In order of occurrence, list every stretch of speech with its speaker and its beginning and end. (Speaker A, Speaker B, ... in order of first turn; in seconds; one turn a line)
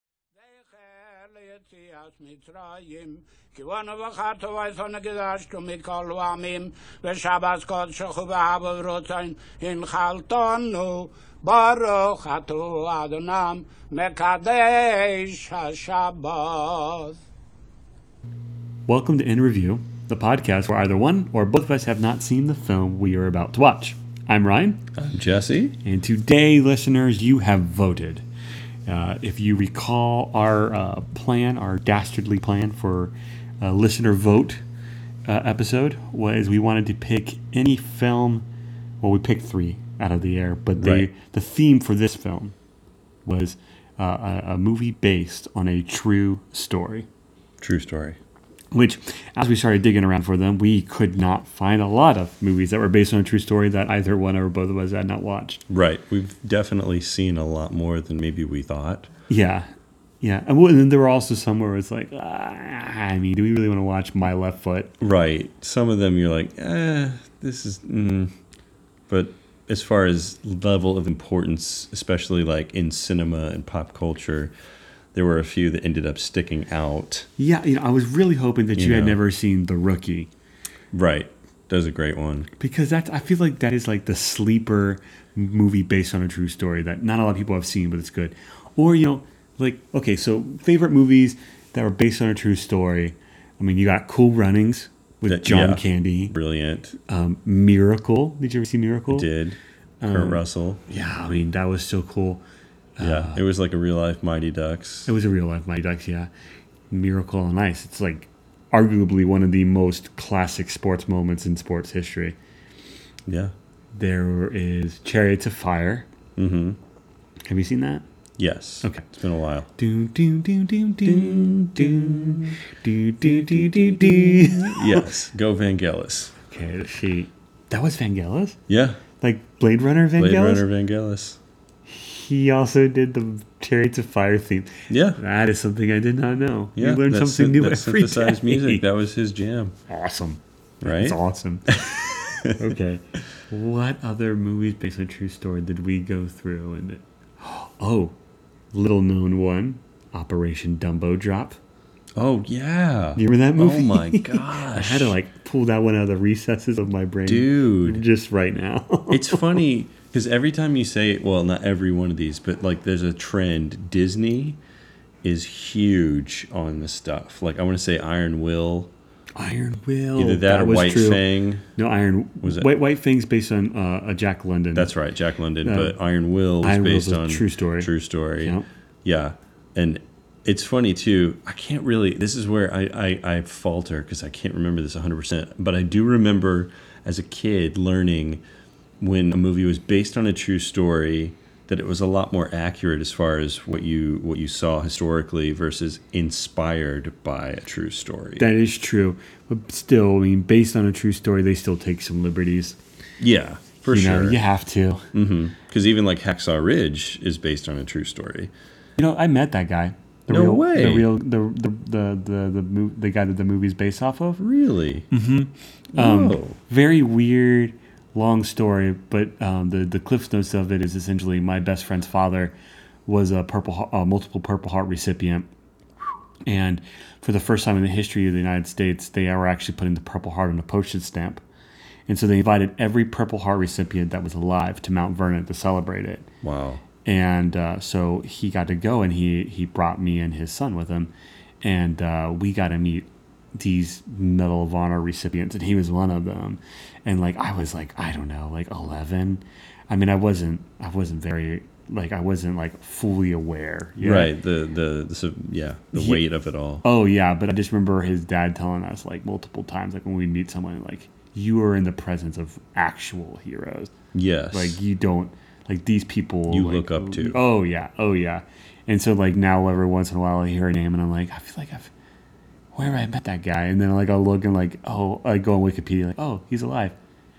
Speaker A: 0.3-17.2
Speaker B: 18.9-24.8
Speaker C: 24.9-25.8
Speaker B: 25.8-28.2
Speaker B: 28.9-34.6
Speaker B: 35.2-38.5
Speaker B: 39.0-42.5
Speaker C: 40.8-41.1
Speaker B: 43.2-47.1
Speaker C: 47.6-48.2
Speaker B: 48.7-55.6
Speaker C: 55.7-59.1
Speaker B: 59.3-59.7
Speaker B: 60.2-64.9
Speaker C: 65.0-68.3
Speaker C: 69.1-74.5
Speaker C: 75.1-77.3
Speaker B: 77.4-80.3
Speaker C: 78.8-79.2
Speaker C: 80.9-82.5
Speaker B: 82.6-96.3
Speaker C: 95.3-97.0
Speaker B: 97.0-99.3
Speaker C: 99.1-100.8
Speaker B: 100.0-102.4
Speaker B: 103.0-103.4
Speaker C: 103.0-105.1
Speaker B: 105.1-106.3
Speaker B: 106.9-112.4
Speaker C: 113.3-113.5
Speaker B: 113.9-116.1
Speaker C: 116.3-116.8
Speaker B: 117.5-118.0
Speaker C: 118.4-119.7
Speaker B: 119.8-125.1
Speaker C: 121.0-122.5
Speaker C: 123.2-126.3
Speaker B: 126.5-128.6
Speaker C: 128.7-129.0
Speaker B: 129.2-130.7
Speaker C: 130.2-131.4
Speaker B: 131.8-138.8
Speaker C: 134.9-135.2
Speaker C: 136.8-139.8
Speaker B: 139.9-148.1
Speaker C: 140.8-142.5
Speaker B: 148.7-151.6
Speaker C: 152.2-155.2
Speaker B: 153.2-159.6
Speaker C: 157.2-158.0
Speaker C: 159.1-164.6
Speaker C: 165.2-168.9
Speaker B: 169.3-171.2
Speaker C: 170.2-171.6
Speaker B: 171.8-174.9
Speaker C: 172.4-172.7
Speaker C: 174.7-188.4
Speaker B: 175.6-175.9
Speaker B: 176.6-178.7
Speaker C: 189.0-198.5
Speaker B: 198.4-202.8
Speaker C: 203.2-204.4
Speaker B: 203.9-205.1
Speaker C: 205.1-208.5
Speaker B: 209.0-214.4
Speaker C: 210.3-211.1
Speaker C: 214.4-215.1
Speaker B: 215.1-222.5
Speaker C: 215.9-216.6
Speaker B: 223.1-225.5
Speaker B: 226.4-231.4
Speaker B: 232.1-236.3
Speaker C: 236.4-236.8
Speaker B: 237.0-254.3
Speaker C: 254.0-256.8
Speaker B: 255.9-256.2
Speaker B: 256.8-263.9
Speaker C: 264.1-264.8
Speaker B: 264.5-271.9
Speaker C: 266.5-267.4
Speaker B: 272.7-276.9